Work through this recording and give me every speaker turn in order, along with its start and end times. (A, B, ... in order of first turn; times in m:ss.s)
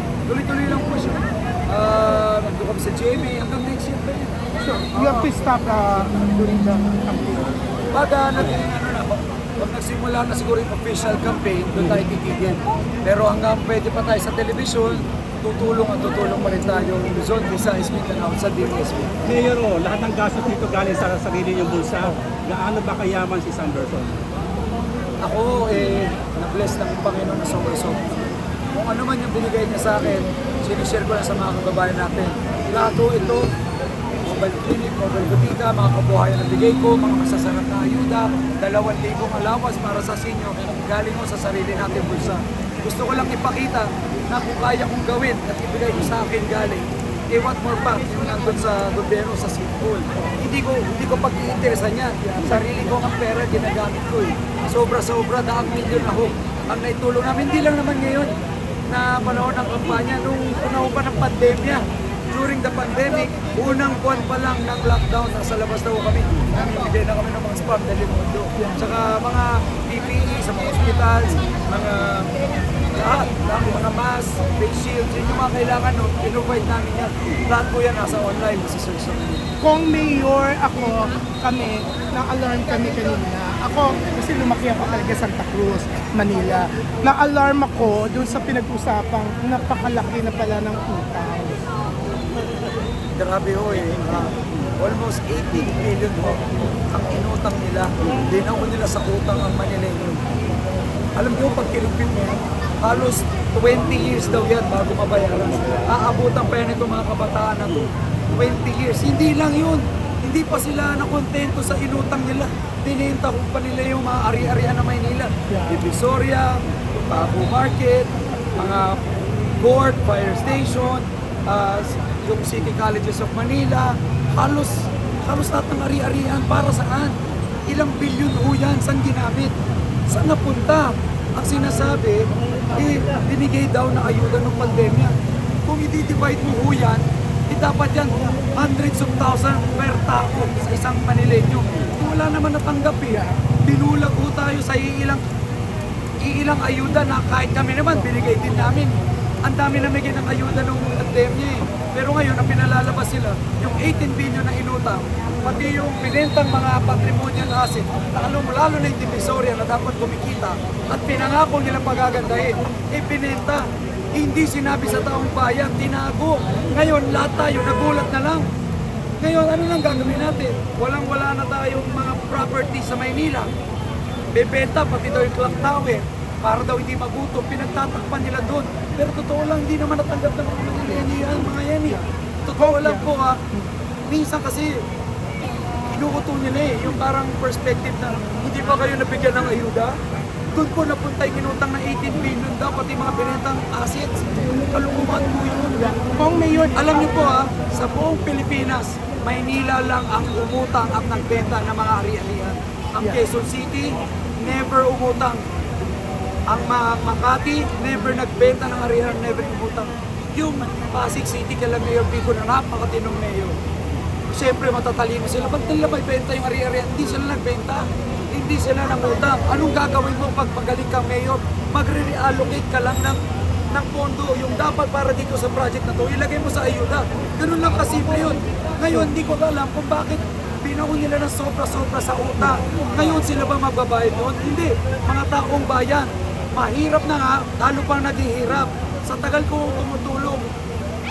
0:00.3-0:04.4 A
0:04.6-0:07.6 B
0:04.9-0:05.3 A
0:07.9-0:19.2 A
0:19.2-0:24.2 C
0:25.2-0:28.2 A
0:28.7-0:33.5 A
0:34.2-0:58.3 A
0:52.4-0:52.7 B
0:58.9-1:12.3 A
1:12.9-1:19.4 A
1:19.6-1:31.6 B
1:33.2-1:40.2 A
1:41.2-1:59.0 A
1:55.5-1:55.8 B
1:59.6-2:07.1 A
2:07.7-2:09.6 A
2:10.1-2:25.2 A
2:23.1-2:23.4 B
2:26.2-2:48.5 A
2:49.2-2:53.5 A
2:54.3-3:03.4 A
3:02.6-3:03.7 B
3:04.1-3:04.8 A
3:05.9-3:09.9 A
3:10.5-3:16.0 A
3:16.1-3:17.4 B
3:16.7-3:25.4 A
3:26.5-3:33.6 A
3:34.3-3:43.2 A
3:43.7-4:00.5 A